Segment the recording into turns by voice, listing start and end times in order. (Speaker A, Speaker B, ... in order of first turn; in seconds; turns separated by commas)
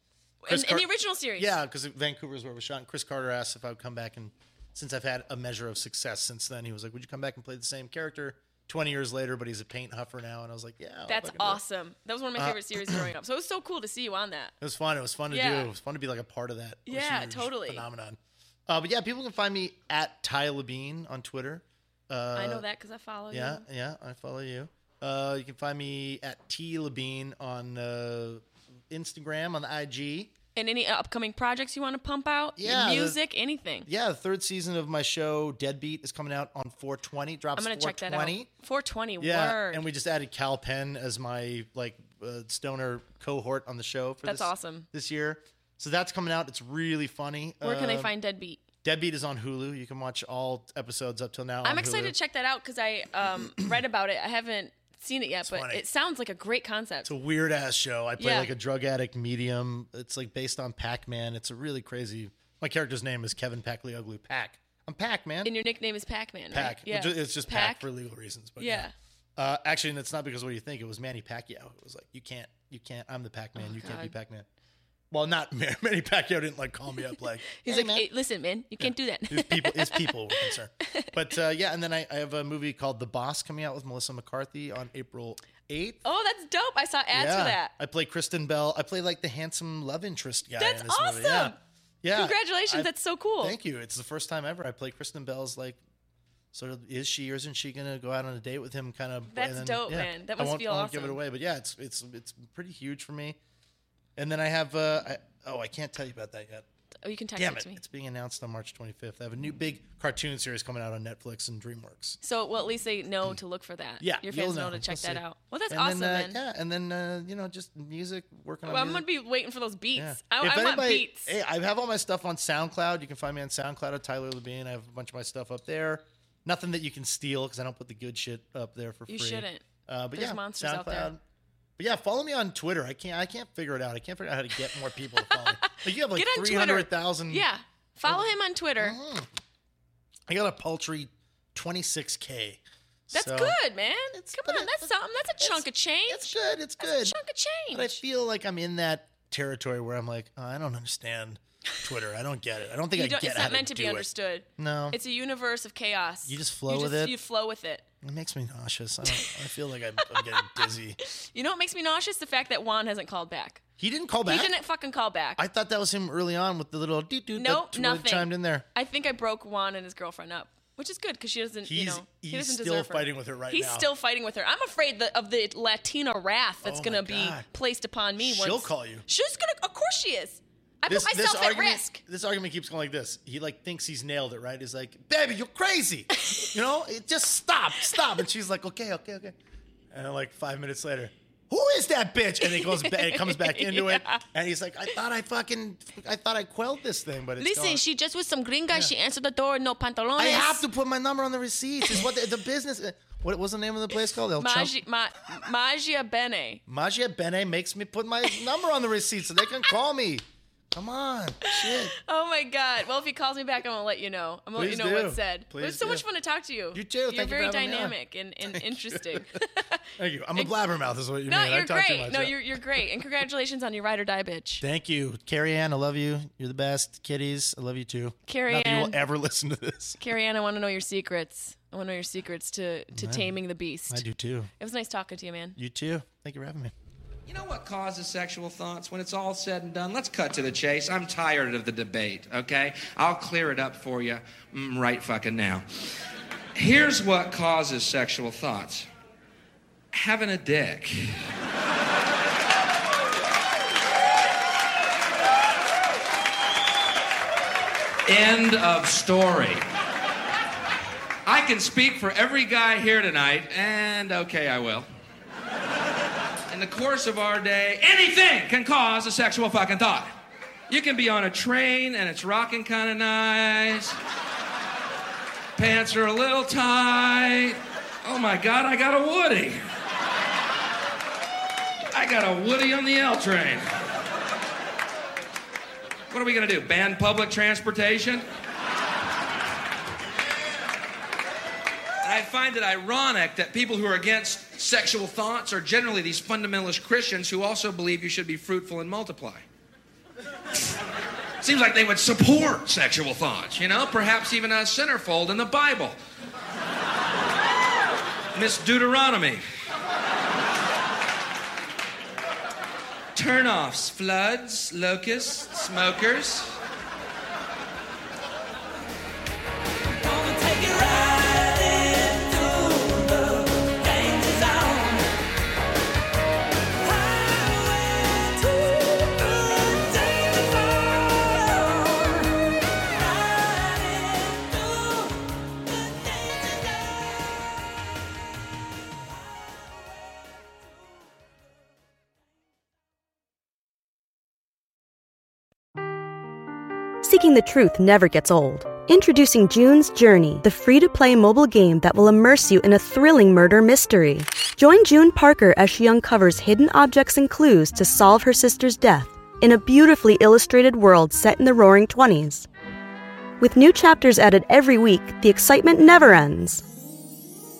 Speaker A: 0.4-1.5, Speaker B: 0.5-11.6, Speaker A: 11.1-14.5, Speaker B: 12.4-13.1, Speaker B: 14.6-22.6, Speaker A: 15.3-15.7, Speaker A: 16.9-17.9, Speaker A: 22.3-23.6, Speaker B: 23.3-30.3, Speaker A: 30.5-33.9, Speaker B: 32.6-33.2, Speaker B: 33.9-38.5, Speaker A: 37.5-39.8, Speaker B: 39.2-48.1, Speaker A: 44.2-44.9, Speaker A: 47.6-48.6, Speaker B: 48.8-52.1, Speaker A: 51.6-57.1, Speaker B: 55.4-55.8, Speaker B: 57.0-65.5, Speaker A: 58.2-58.5, Speaker A: 65.4-67.8, Speaker B: 66.5-74.5, Speaker A: 68.6-68.9, Speaker A: 73.5-74.1, Speaker B: 75.1-78.1, Speaker A: 77.5-81.1, Speaker B: 78.8-86.0, Speaker A: 86.0-87.7, Speaker B: 87.1-95.8, Speaker A: 90.6-91.6, Speaker A: 92.1-93.5, Speaker B: 96.5-103.4, Speaker A: 99.3-101.2, Speaker B: 104.2-106.7, Speaker A: 107.0-107.8, Speaker B: 107.3-112.2, Speaker A: 112.2-116.4, Speaker B: 114.0-119.1, Speaker A: 118.6-121.3, Speaker B: 119.9-131.2, Speaker A: 129.1-131.1, Speaker B: 131.8-137.5, Speaker A: 135.2-139.0, Speaker B: 138.1-139.3, Speaker B: 140.3-143.6, Speaker A: 143.1-146.3, Speaker B: 144.1-147.2, Speaker A: 146.8-148.0, Speaker B: 147.7-154.1, Speaker A: 152.9-157.8, Speaker B: 154.6-155.0, Speaker B: 156.2-157.2, Speaker B: 158.0-161.0, Speaker A: 160.0-163.6, Speaker B: 163.8-164.5, Speaker A: 164.2-165.4, Speaker B: 165.4-168.6, Speaker A: 167.3-182.0, Speaker B: 171.6-173.9, Speaker B: 176.6-177.5, Speaker B: 178.2-179.0, Speaker B: 180.9-189.3, Speaker A: 186.3-186.5, Speaker B: 189.9-197.8, Speaker A: 192.4-194.2, Speaker A: 197.4-200.7, Speaker B: 200.2-204.8, Speaker A: 204.4-206.6, Speaker B: 206.7-211.9, Speaker A: 211.4-220.5, Speaker B: 214.6-216.0, Speaker B: 216.7-218.0, Speaker B: 218.5-219.3, Speaker B: 220.0-222.4, Speaker A: 221.2-224.6, Speaker B: 224.6-230.0, Speaker A: 228.3-229.0, Speaker A: 230.0-234.0, Speaker B: 232.9-233.3, Speaker B: 233.9-234.5, Speaker A: 234.6-235.6, Speaker B: 235.6-236.7, Speaker C: 237.2-245.6, Speaker C: 246.6-248.9, Speaker C: 249.9-251.2, Speaker C: 258.1-259.6, Speaker C: 261.2-264.9, Speaker C: 266.5-270.1, Speaker C: 270.7-274.0, Speaker C: 275.6-279.6, Speaker C: 281.9-283.6, Speaker C: 286.1-288.2, Speaker C: 292.0-299.4, Speaker C: 301.4-306.0, Speaker C: 308.3-309.4, Speaker C: 313.1-316.6, Speaker C: 320.0-325.1, Speaker C: 326.8-332.3, Speaker C: 332.9-335.1, Speaker C: 336.1-336.7, Speaker D: 347.0-362.4, Speaker D: 363.4-366.6